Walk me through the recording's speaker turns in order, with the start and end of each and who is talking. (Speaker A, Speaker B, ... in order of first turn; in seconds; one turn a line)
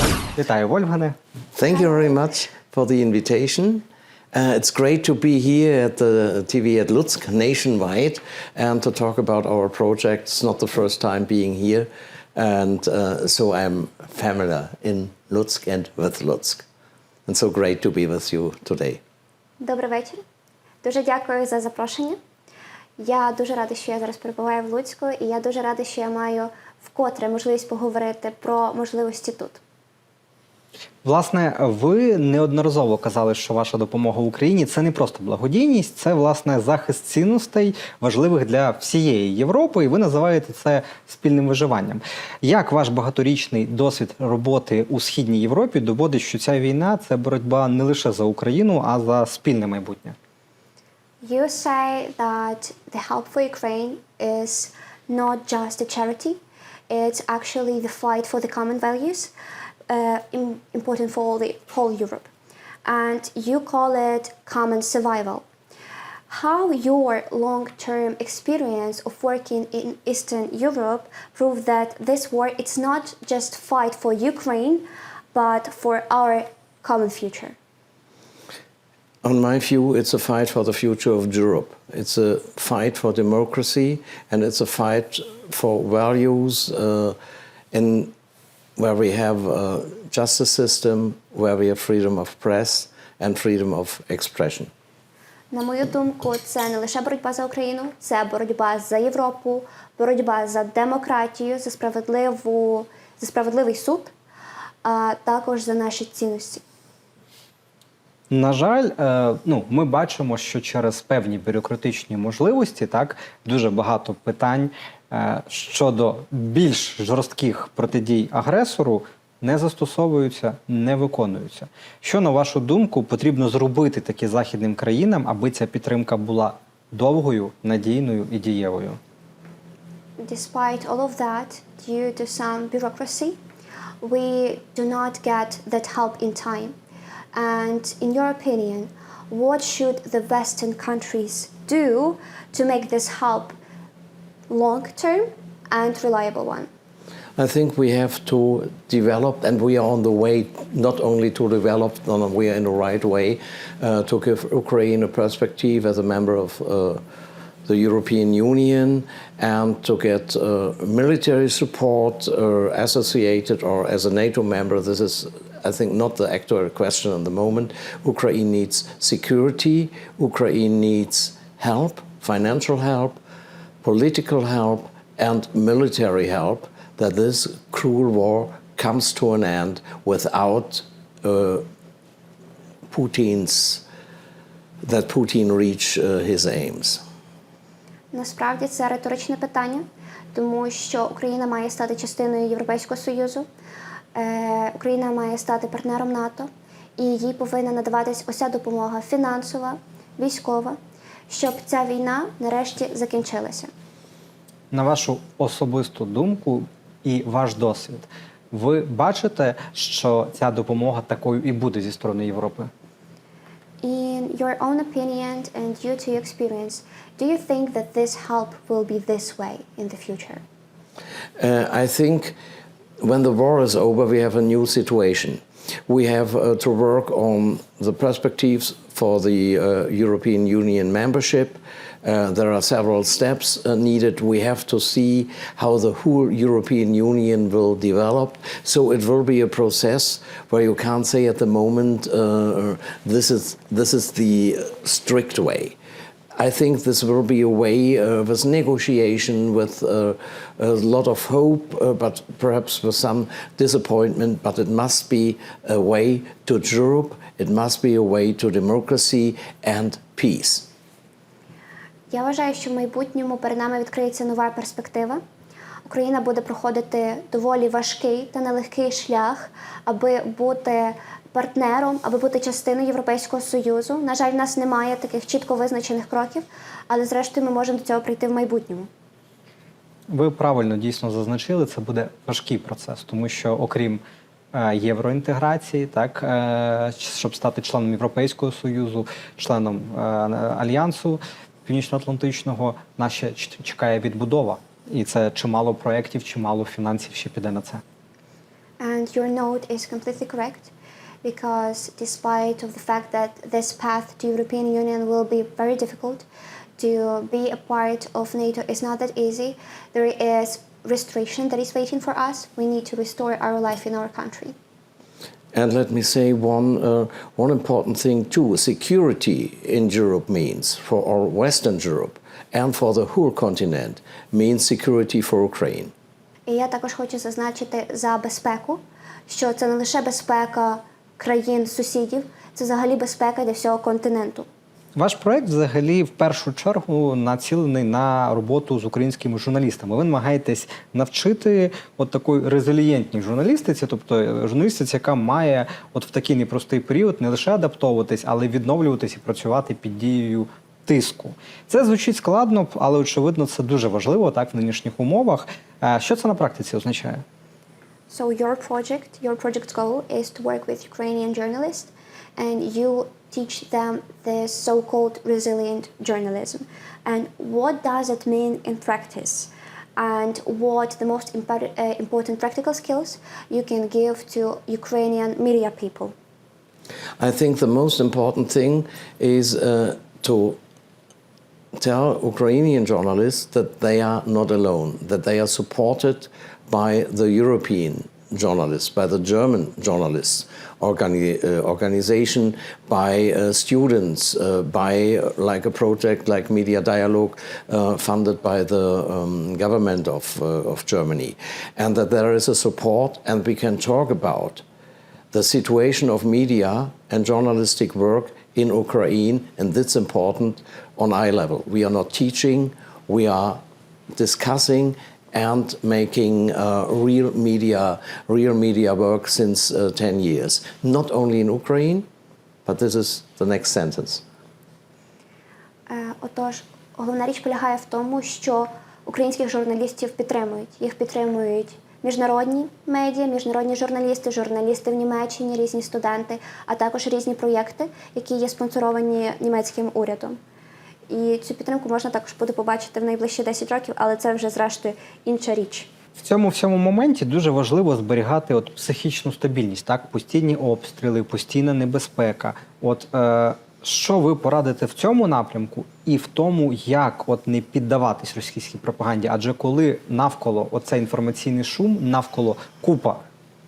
Speaker A: 0.4-1.2
Speaker B: 1.6-16.7
Speaker B: 17.3-19.0
Speaker C: 19.6-20.2
Speaker C: 20.8-22.2
Speaker C: 23.0-29.6
Speaker A: 31.0-50.2
Speaker C: 51.2-59.3
Speaker C: 59.9-62.3
Speaker C: 62.9-65.5
Speaker C: 66.3-77.6
Speaker B: 79.2-87.2
Speaker B: 87.7-88.1
Speaker B: 88.8-94.7
Speaker C: 95.5-104.1
Speaker C: 104.8-106.6
Speaker A: 108.3-129.0
Speaker C: 130.2-133.4
Speaker C: 134.0-136.8
Speaker C: 137.3-143.6
Speaker C: 144.5-146.7
Speaker B: 147.4-157.0
Speaker B: 157.7-173.2
Speaker B: 173.8-181.7
Speaker B: 182.9-183.8
Speaker B: 184.8-187.0
Speaker C: 188.1-193.5
Speaker C: 194.2-200.8
Speaker C: 201.3-203.7
Speaker A: 204.7-212.7
Speaker C: 213.8-220.4
Speaker B: 221.4-222.4
Speaker B: 223.0-245.8
Speaker B: 246.4-260.7
Speaker C: 262.1-265.2
Speaker C: 265.9-278.9
Speaker A: 280.1-284.0
Speaker A: 284.5-297.8
Speaker C: 298.8-300.7
Speaker C: 301.2-306.2
Speaker C: 306.8-314.6
Speaker B: 315.5-325.9
Speaker C: 326.5-334.5
Speaker A: 335.0-357.2
Speaker C: 358.1-376.1
Speaker B: 377.2-380.6
Speaker B: 381.8-404.6
Speaker B: 405.3-413.6
Speaker B: 414.2-422.1
Speaker B: 422.7-424.2
Speaker C: 425.9-440.4
Speaker C: 441.1-445.9
Speaker A: 446.2-463.2